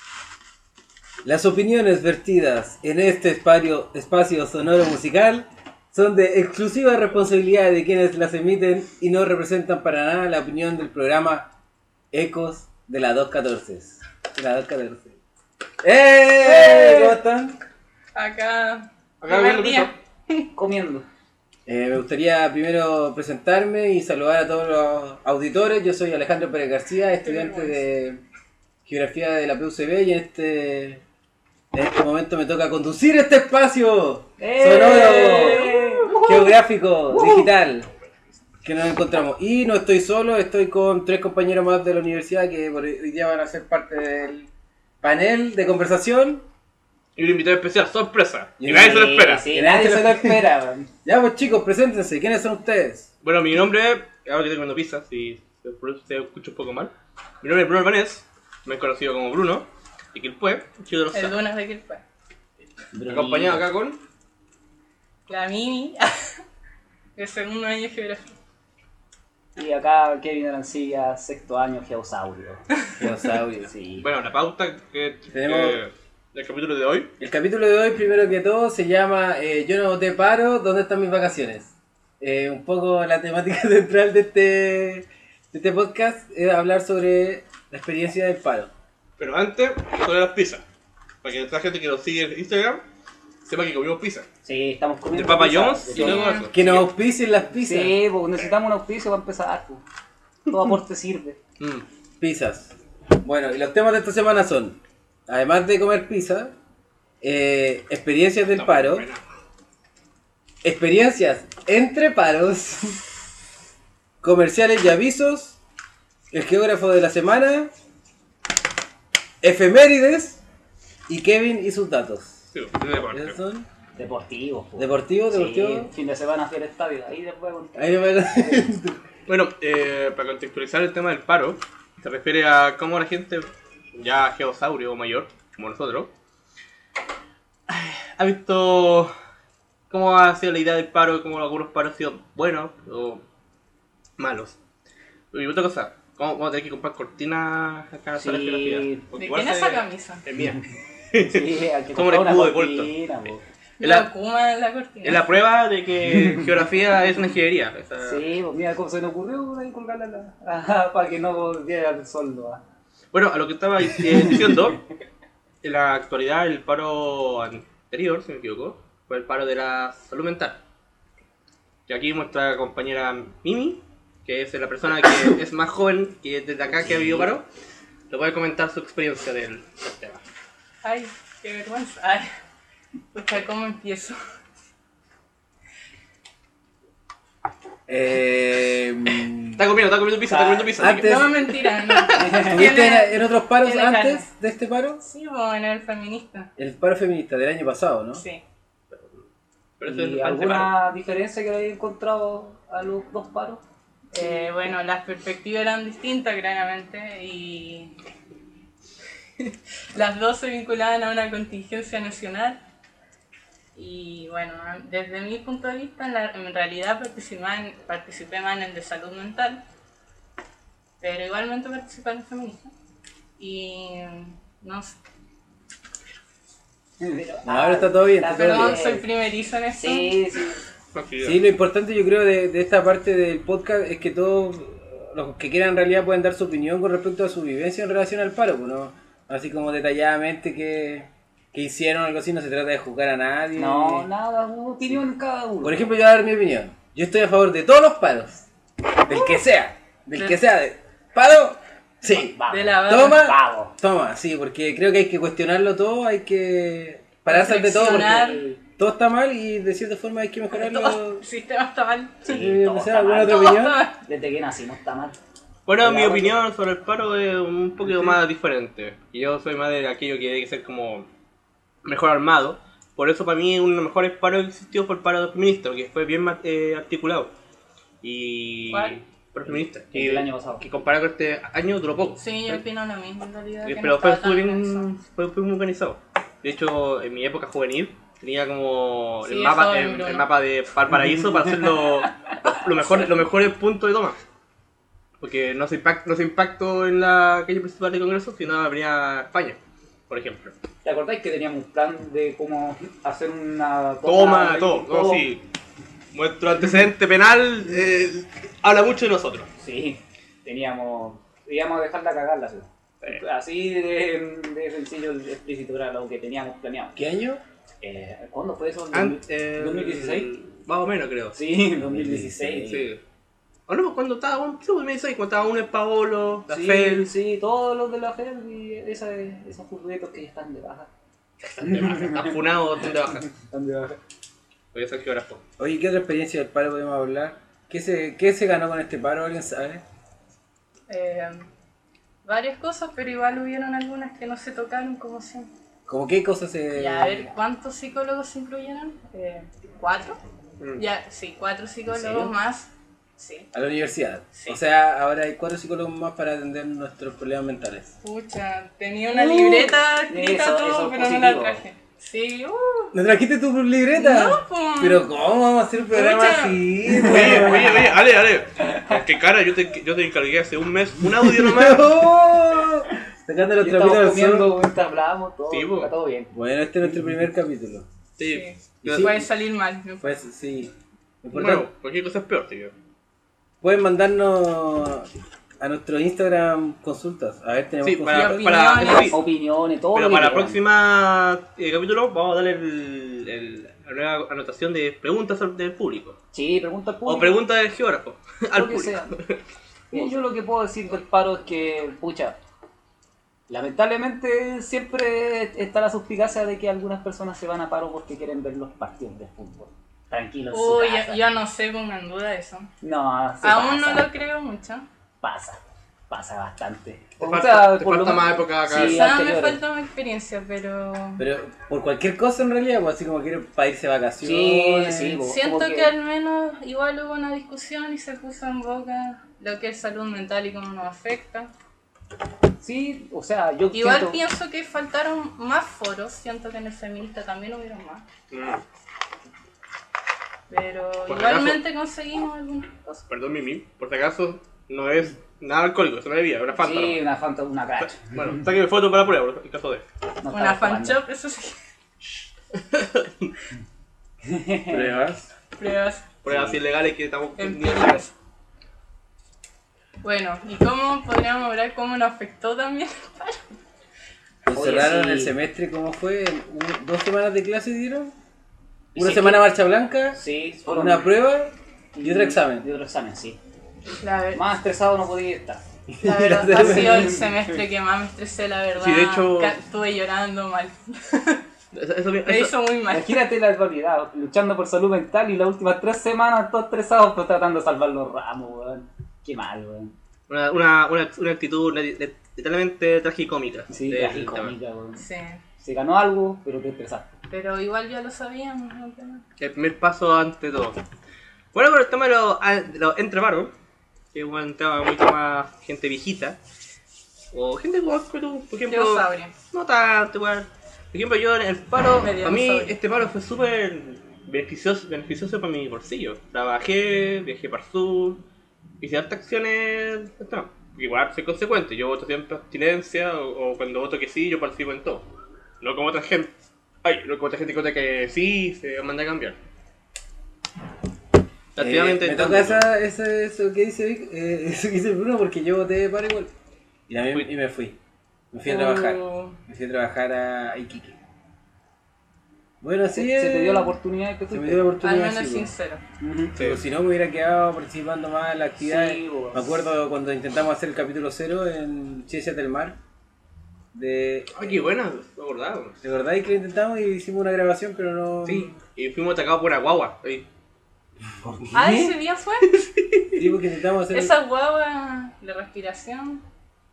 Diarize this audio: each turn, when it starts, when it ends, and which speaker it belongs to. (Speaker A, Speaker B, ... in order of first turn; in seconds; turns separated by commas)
Speaker A: 1.2-11.5, Speaker A: 12.1-15.2, Speaker A: 15.8-17.6, Speaker B: 16.6-17.1, Speaker B: 18.1-20.5, Speaker C: 19.2-19.9, Speaker D: 20.6-21.1, Speaker A: 21.6-28.2, Speaker B: 27.2-27.8, Speaker A: 28.9-31.0, Speaker A: 31.7-37.9, Speaker D: 34.4-36.1, Speaker C: 35.1-36.6, Speaker C: 37.1-37.5, Speaker A: 38.6-44.5, Speaker A: 45.0-46.4, Speaker C: 47.1-49.5, Speaker A: 48.6-50.5, Speaker D: 48.7-50.9, Speaker A: 51.0-53.1, Speaker C: 53.2-61.4, Speaker B: 61.1-62.0, Speaker D: 62.9-63.6, Speaker C: 63.1-64.0, Speaker B: 65.3-66.4, Speaker B: 67.2-68.3, Speaker D: 69.5-72.6, Speaker A: 73.0-73.7, Speaker D: 73.7-74.0, Speaker C: 74.0-77.1, Speaker A: 75.3-75.8, Speaker A: 77.2-88.7, Speaker C: 89.2-90.6, Speaker C: 91.2-92.8, Speaker C: 93.4-94.3, Speaker D: 94.4-96.3, Speaker C: 95.1-96.9, Speaker B: 95.9-96.5, Speaker A: 96.5-98.0, Speaker D: 97.6-99.8, Speaker D: 100.5-101.4, Speaker C: 101.6-101.8, Speaker A: 102.2-106.5, Speaker A: 107.2-109.1, Speaker C: 108.5-109.2, Speaker A: 110.6-113.0, Speaker A: 114.2-115.6, Speaker A: 116.3-117.7, Speaker A: 119.4-120.4, Speaker A: 121.1-123.7, Speaker C: 122.5-123.4, Speaker D: 124.0-128.6, Speaker A: 124.8-125.9, Speaker A: 127.7-129.0, Speaker C: 129.2-136.1, Speaker C: 137.7-139.1, Speaker C: 139.9-143.2, Speaker C: 144.2-144.6, Speaker C: 145.3-152.9, Speaker D: 148.2-149.0, Speaker B: 149.2-150.2, Speaker D: 151.2-153.4, Speaker B: 153.8-155.3, Speaker C: 153.8-154.1, Speaker C: 155.0-158.3, Speaker D: 156.1-156.4, Speaker D: 158.0-162.6, Speaker C: 163.1-164.8, Speaker D: 164.1-164.5, Speaker C: 165.6-170.6, Speaker C: 171.9-177.4, Speaker D: 176.8-177.3, Speaker C: 178.1-180.2, Speaker B: 180.8-182.3, Speaker B: 183.1-184.2, Speaker A: 187.9-189.7, Speaker C: 189.6-192.3, Speaker D: 190.3-190.9, Speaker A: 190.8-191.4, Speaker B: 191.0-194.3, Speaker D: 192.1-192.8, Speaker A: 192.5-195.0, Speaker B: 195.0-196.5, Speaker A: 196.6-198.2, Speaker B: 198.2-198.4, Speaker C: 199.8-200.7, Speaker D: 199.8-203.6, Speaker B: 204.1-208.0, Speaker D: 204.2-204.5, Speaker B: 209.4-212.6, Speaker B: 213.7-219.6, Speaker B: 221.0-222.7, Speaker B: 223.4-224.9, Speaker D: 227.0-229.1, Speaker A: 227.4-228.9, Speaker B: 228.4-230.1, Speaker D: 229.8-230.6, Speaker C: 230.9-231.4, Speaker A: 231.2-244.1, Speaker D: 243.6-245.8, Speaker A: 245.6-248.5, Speaker A: 249.1-261.2, Speaker D: 252.1-253.7, Speaker B: 252.5-253.3, Speaker B: 257.3-258.4, Speaker D: 257.7-258.6, Speaker B: 260.5-262.4, Speaker A: 262.2-263.8, Speaker D: 262.3-263.4, Speaker B: 263.2-264.0, Speaker D: 264.0-265.1, Speaker C: 265.7-271.1, Speaker D: 265.8-266.4, Speaker C: 271.8-277.3, Speaker C: 278.0-282.6, Speaker B: 278.7-279.0, Speaker D: 279.5-280.6, Speaker B: 282.2-284.9, Speaker C: 283.6-294.2, Speaker B: 289.2-290.3, Speaker C: 295.2-299.6, Speaker C: 300.1-300.5, Speaker D: 300.8-305.2, Speaker C: 304.0-305.4, Speaker C: 306.1-309.5, Speaker D: 309.6-317.0, Speaker A: 316.9-317.4, Speaker D: 317.8-320.3, Speaker C: 318.9-321.4, Speaker D: 321.3-322.9, Speaker A: 321.9-322.9, Speaker C: 322.7-323.0, Speaker C: 323.7-327.1, Speaker D: 326.5-330.9, Speaker C: 331.4-333.3, Speaker D: 331.6-334.0, Speaker C: 334.7-335.4, Speaker A: 335.6-339.8, Speaker B: 340.9-341.5, Speaker B: 342.2-345.5, Speaker A: 345.9-347.3, Speaker B: 346.8-350.2, Speaker B: 350.8-353.5, Speaker A: 351.9-352.3, Speaker A: 353.5-357.9, Speaker B: 354.3-354.6, Speaker B: 358.0-362.9, Speaker D: 359.1-361.6, Speaker A: 359.2-359.7, Speaker A: 362.9-368.0, Speaker B: 363.9-365.1, Speaker B: 365.8-366.6, Speaker C: 367.0-371.9, Speaker D: 368.6-369.0, Speaker A: 371.0-374.5, Speaker D: 373.6-376.3, Speaker C: 375.5-375.9, Speaker A: 376.3-377.9, Speaker C: 378.2-379.1, Speaker B: 378.3-380.1, Speaker A: 378.8-379.3, Speaker A: 380.0-381.7, Speaker C: 381.3-382.7, Speaker A: 383.6-385.1, Speaker A: 385.6-388.9, Speaker C: 387.8-389.2, Speaker B: 388.1-389.2, Speaker D: 389.1-390.6, Speaker C: 389.9-396.2, Speaker D: 396.3-397.4, Speaker C: 397.1-399.4, Speaker D: 398.5-399.1, Speaker D: 399.9-402.4, Speaker D: 403.5-411.3, Speaker B: 410.5-412.7, Speaker D: 412.8-414.1, Speaker B: 413.4-414.9, Speaker D: 415.2-419.6, Speaker C: 417.2-419.1, Speaker B: 418.7-421.2, Speaker A: 421.2-425.2, Speaker D: 424.2-425.9, Speaker B: 425.2-431.5, Speaker D: 432.6-434.2, Speaker B: 433.7-438.1, Speaker C: 438.3-438.6, Speaker B: 440.5-443.0, Speaker C: 441.1-441.6, Speaker C: 443.1-447.0, Speaker D: 446.6-448.4, Speaker C: 448.1-449.9, Speaker D: 450.2-451.0, Speaker B: 450.3-451.5, Speaker C: 452.6-453.3, Speaker D: 454.2-454.9, Speaker A: 454.7-455.3, Speaker B: 455.6-456.1, Speaker C: 456.2-458.0, Speaker A: 456.2-456.6, Speaker B: 457.4-458.1, Speaker B: 460.0-463.5, Speaker A: 464.4-468.1, Speaker D: 464.5-465.3, Speaker D: 468.9-469.4, Speaker A: 468.9-472.6, Speaker D: 470.1-471.1, Speaker D: 471.9-473.4, Speaker B: 474.0-474.4, Speaker D: 474.3-475.6, Speaker A: 475.9-477.2, Speaker B: 476.0-481.4, Speaker D: 476.5-477.6, Speaker C: 478.8-479.6, Speaker C: 481.7-482.5, Speaker B: 482.2-483.2, Speaker D: 482.9-489.9, Speaker C: 490.3-494.5, Speaker D: 493.7-495.0, Speaker B: 495.0-495.4, Speaker D: 495.6-497.1, Speaker B: 497.3-499.2, Speaker C: 499.4-500.8, Speaker C: 501.5-503.5, Speaker C: 504.1-506.4, Speaker C: 507.3-518.2, Speaker B: 508.7-509.3, Speaker B: 512.0-512.8, Speaker C: 518.8-525.1, Speaker C: 525.6-529.4, Speaker C: 531.5-532.6, Speaker A: 531.6-536.3, Speaker A: 536.9-537.8, Speaker A: 538.3-541.0, Speaker B: 538.5-539.4, Speaker A: 542.6-543.8, Speaker D: 542.9-544.7, Speaker A: 544.3-545.5, Speaker B: 544.8-545.8, Speaker D: 546.0-546.3, Speaker A: 546.3-552.8, Speaker C: 546.4-546.6, Speaker D: 548.6-549.5, Speaker A: 553.7-554.6, Speaker C: 554.3-555.8, Speaker A: 555.8-558.5, Speaker C: 558.2-560.2, Speaker A: 561.2-562.0, Speaker B: 561.5-562.6, Speaker C: 562.8-563.2, Speaker A: 563.1-564.1, Speaker B: 563.9-566.2